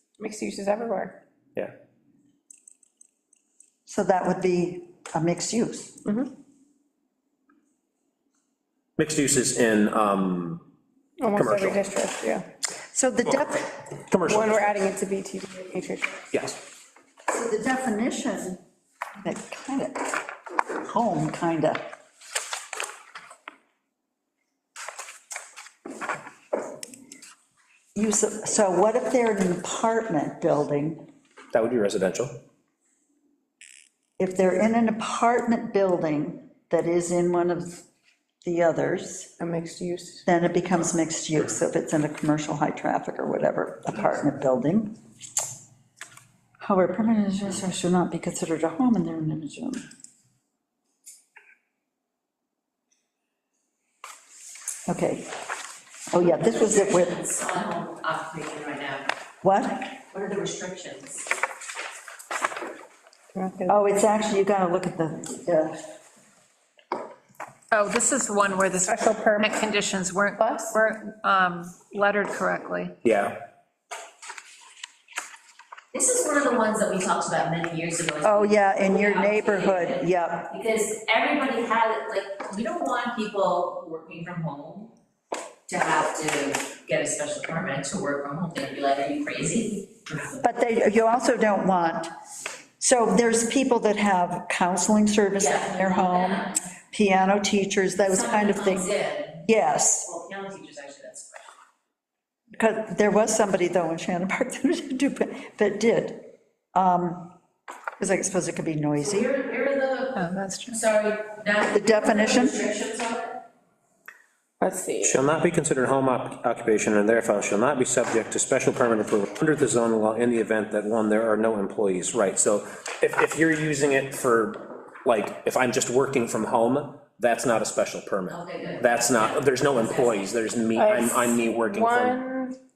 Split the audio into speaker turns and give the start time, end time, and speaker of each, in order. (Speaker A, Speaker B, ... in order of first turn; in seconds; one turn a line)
Speaker A: 0.2-1.1
Speaker B: 3.9-6.0
Speaker A: 6.0-6.3
Speaker C: 9.0-10.7
Speaker A: 11.2-12.4
Speaker C: 11.3-11.8
Speaker B: 12.9-13.7
Speaker C: 14.1-14.8
Speaker A: 14.3-16.3
Speaker C: 16.3-16.6
Speaker B: 17.3-18.6
Speaker B: 19.2-20.1
Speaker B: 20.8-21.9
Speaker B: 27.9-31.0
Speaker C: 31.5-32.4
Speaker B: 34.2-37.9
Speaker B: 38.4-39.3
Speaker A: 39.4-40.2
Speaker B: 40.2-44.9
Speaker B: 46.6-49.8
Speaker B: 54.9-55.3
Speaker B: 56.1-57.2
Speaker D: 56.2-59.1
Speaker B: 59.4-60.0
Speaker D: 60.1-61.2
Speaker A: 63.3-63.7
Speaker B: 63.7-65.8
Speaker E: 67.7-72.9
Speaker A: 68.8-69.7
Speaker A: 70.3-70.8
Speaker C: 73.0-73.4
Speaker D: 75.9-84.9
Speaker B: 78.2-80.5
Speaker D: 85.7-90.4
Speaker B: 90.4-92.1
Speaker B: 92.8-100.1
Speaker D: 95.3-96.6
Speaker D: 98.0-99.5
Speaker D: 100.0-101.5
Speaker B: 102.5-107.3
Speaker B: 108.0-109.3
Speaker D: 109.0-113.4
Speaker E: 110.1-110.8
Speaker B: 111.7-112.6
Speaker A: 114.6-115.2
Speaker C: 115.0-132.2
Speaker D: 128.3-130.3
Speaker A: 130.8-132.6